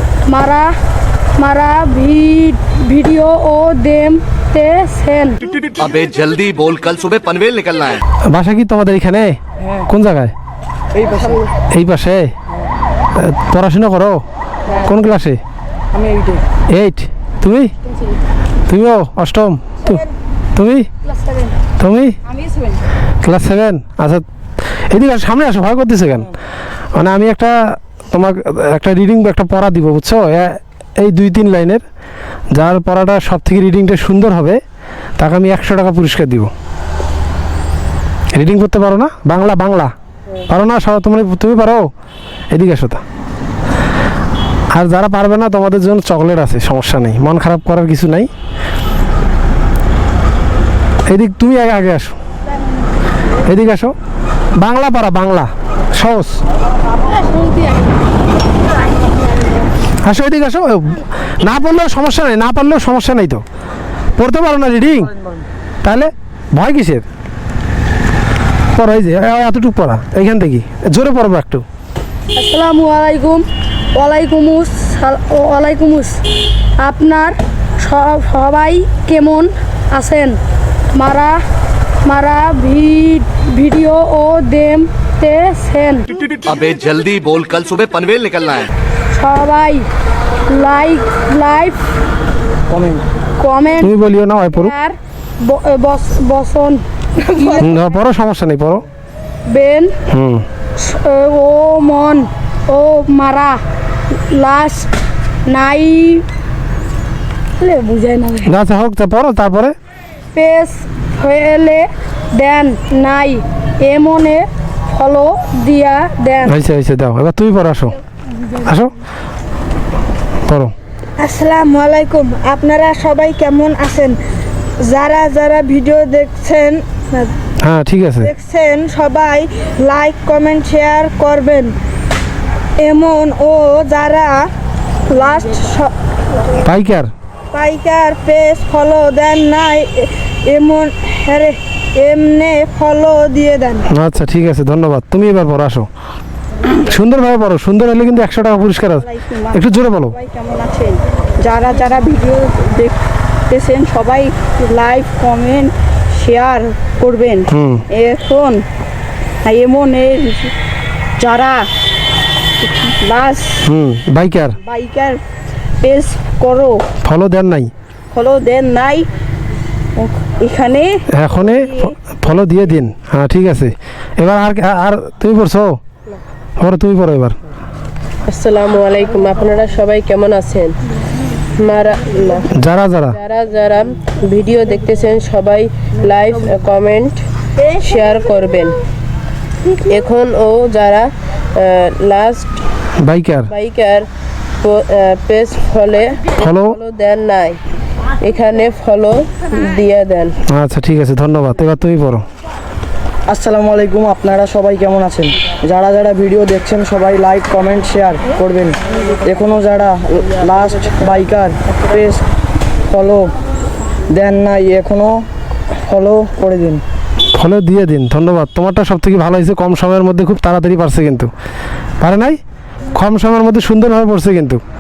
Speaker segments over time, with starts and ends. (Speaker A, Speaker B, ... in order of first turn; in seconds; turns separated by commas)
Speaker A: 0.3-0.7, Speaker A: 1.4-5.4, Speaker B: 5.8-8.0, Speaker C: 8.3-10.3, Speaker D: 10.9-11.5, Speaker C: 11.7-12.3, Speaker C: 13.2-14.2, Speaker C: 14.8-15.4, Speaker D: 15.9-16.4, Speaker C: 16.7-17.7, Speaker C: 18.7-20.0, Speaker C: 20.6-20.9, Speaker C: 21.8-22.2, Speaker E: 22.4-22.7, Speaker C: 23.2-24.2, Speaker C: 24.8-26.3, Speaker C: 26.9-31.8, Speaker C: 32.5-34.6, Speaker C: 35.2-36.5, Speaker C: 38.3-39.9, Speaker C: 40.5-41.9, Speaker C: 42.5-43.0, Speaker C: 44.7-48.3, Speaker C: 51.1-52.2, Speaker C: 53.5-54.0, Speaker C: 54.6-56.4, Speaker A: 57.3-57.6, Speaker C: 60.0-63.4, Speaker C: 64.2-65.1, Speaker C: 65.8-67.1, Speaker C: 68.7-71.7, Speaker A: 72.3-76.2, Speaker A: 76.8-80.4, Speaker A: 80.9-81.4, Speaker A: 82.0-86.1, Speaker B: 86.4-88.7, Speaker A: 89.1-89.9, Speaker A: 90.5-91.9, Speaker D: 92.7-93.0, Speaker A: 93.4-93.9, Speaker C: 93.8-94.7, Speaker A: 94.5-96.8, Speaker E: 97.3-97.6, Speaker C: 97.6-98.9, Speaker A: 99.5-100.0, Speaker C: 100.1-100.5, Speaker A: 100.8-103.6, Speaker A: 104.3-104.9, Speaker A: 105.5-106.2, Speaker A: 107.6-108.5, Speaker C: 108.5-109.8, Speaker A: 110.3-116.6, Speaker C: 116.5-118.0, Speaker C: 118.6-118.9, Speaker C: 120.5-120.7, Speaker E: 121.2-124.2, Speaker E: 124.8-127.3, Speaker C: 127.6-128.3, Speaker E: 128.2-131.8, Speaker E: 132.8-134.5, Speaker E: 135.1-135.9, Speaker C: 136.6-137.1, Speaker E: 137.5-143.8, Speaker C: 143.9-145.9, Speaker C: 146.8-150.2, Speaker E: 149.0-152.9, Speaker E: 153.5-158.6, Speaker C: 157.5-157.8, Speaker E: 159.4-160.5, Speaker E: 161.2-161.7, Speaker E: 162.6-163.6, Speaker C: 163.6-164.6, Speaker E: 164.7-165.2, Speaker E: 165.8-166.9, Speaker C: 167.0-167.7, Speaker E: 168.1-169.1, Speaker E: 170.0-171.0, Speaker C: 171.1-175.8, Speaker E: 171.7-171.9, Speaker C: 176.6-177.4, Speaker F: 178.3-180.8, Speaker F: 181.6-182.5, Speaker C: 182.6-183.2, Speaker F: 183.1-187.3, Speaker F: 187.8-188.8, Speaker F: 189.7-192.6, Speaker C: 193.0-193.5, Speaker F: 193.5-194.1, Speaker F: 194.6-197.6, Speaker C: 196.4-196.8, Speaker F: 198.2-200.4, Speaker C: 200.5-202.2, Speaker D: 203.3-212.2, Speaker D: 212.9-213.3, Speaker D: 214.1-215.3, Speaker D: 215.9-216.8, Speaker C: 217.3-221.3, Speaker C: 222.0-222.4, Speaker C: 222.9-224.6